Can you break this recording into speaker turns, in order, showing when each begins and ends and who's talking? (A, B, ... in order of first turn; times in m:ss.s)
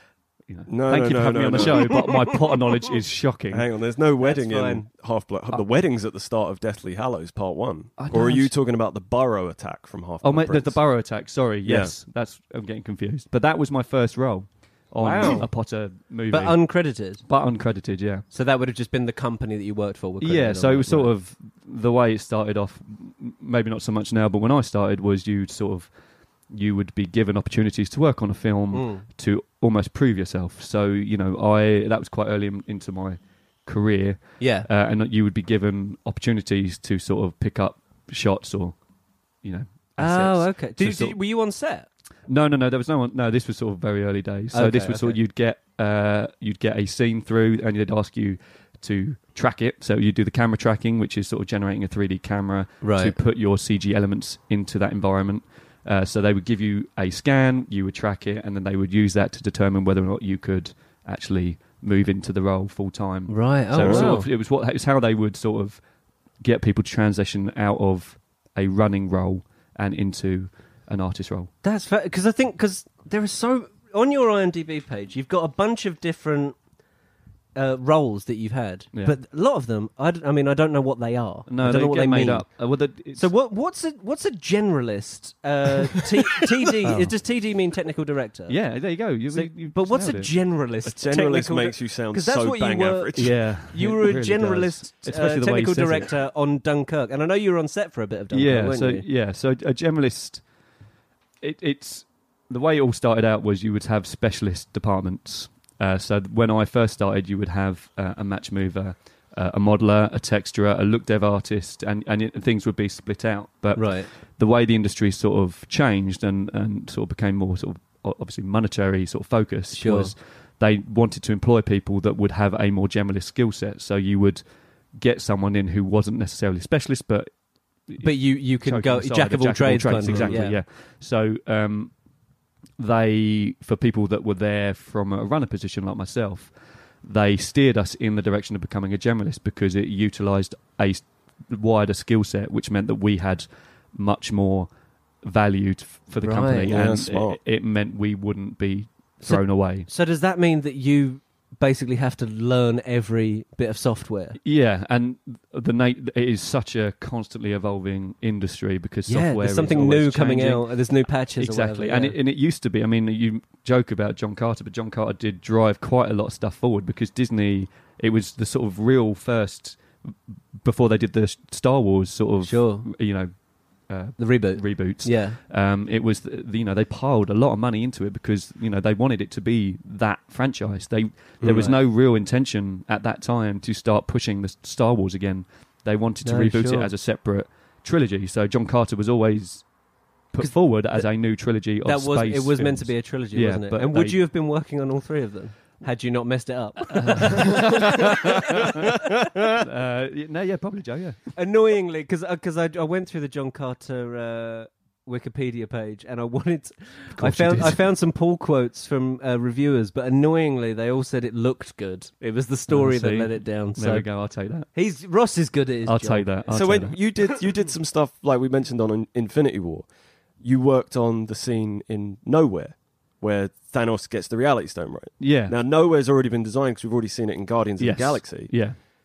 0:00.5-0:03.7 A
0:00.7-0:02.0 B
0:03.5-0:10.8 B
0:04.2-0:04.9 C
0:08.0-0:08.5 A
0:10.2-0:18.3 A
0:11.6-0:11.9 B
0:15.0-0:15.5 C
0:16.3-0:17.2 C
0:18.3-0:21.1 C
0:20.2-0:25.9 A
0:26.5-0:38.8 A
0:28.7-0:29.0 C
0:34.4-0:34.7 C
0:39.4-0:41.2 A
0:40.0-0:41.9 C
0:42.3-1:05.8 A
0:44.5-0:45.2 C
0:52.8-0:53.2 C
1:03.3-1:04.3 C
1:03.8-1:04.1 B
1:06.4-1:11.5 A
1:11.6-1:16.6 C
1:17.6-1:22.4 C
1:21.5-1:23.3 A
1:23.2-1:28.6 C
1:26.8-1:27.1 A
1:28.5-1:30.3 A
1:29.3-1:39.1 C
1:30.9-1:33.4 B
1:33.2-1:36.1 A
1:38.3-1:40.4 A
1:41.4-2:04.4 A
1:53.8-1:54.1 C
1:59.7-2:00.1 C
2:05.0-2:07.3 A
2:07.9-2:11.9 A
2:08.0-2:10.6 C
2:10.1-2:10.4 B
2:12.8-2:16.5 A
2:17.0-2:24.7 A
2:25.2-2:29.9 A
2:26.2-2:26.7 C
2:26.7-2:27.4 B
2:29.2-2:34.4 C
2:34.4-2:40.6 A
2:39.1-2:42.2 C
2:41.4-2:49.8 A
2:50.6-2:53.3 A
2:52.4-2:52.9 C
2:53.9-3:09.7 A
2:54.2-2:55.4 C
3:01.4-3:01.7 B
3:01.5-3:01.8 C
3:06.2-3:06.9 C
3:10.3-3:14.2 A
3:10.4-3:11.1 C
3:11.8-3:18.8 C
3:16.9-3:19.0 A
3:19.1-3:19.5 B
3:19.5-3:21.3 A
3:21.4-3:34.1 C
3:27.2-3:27.8 A
3:32.7-3:34.7 A
3:34.7-3:36.4 C
3:35.9-3:37.0 A
3:36.5-3:39.9 B
3:40.4-3:48.6 B
3:45.2-3:45.6 A
3:47.8-3:48.8 A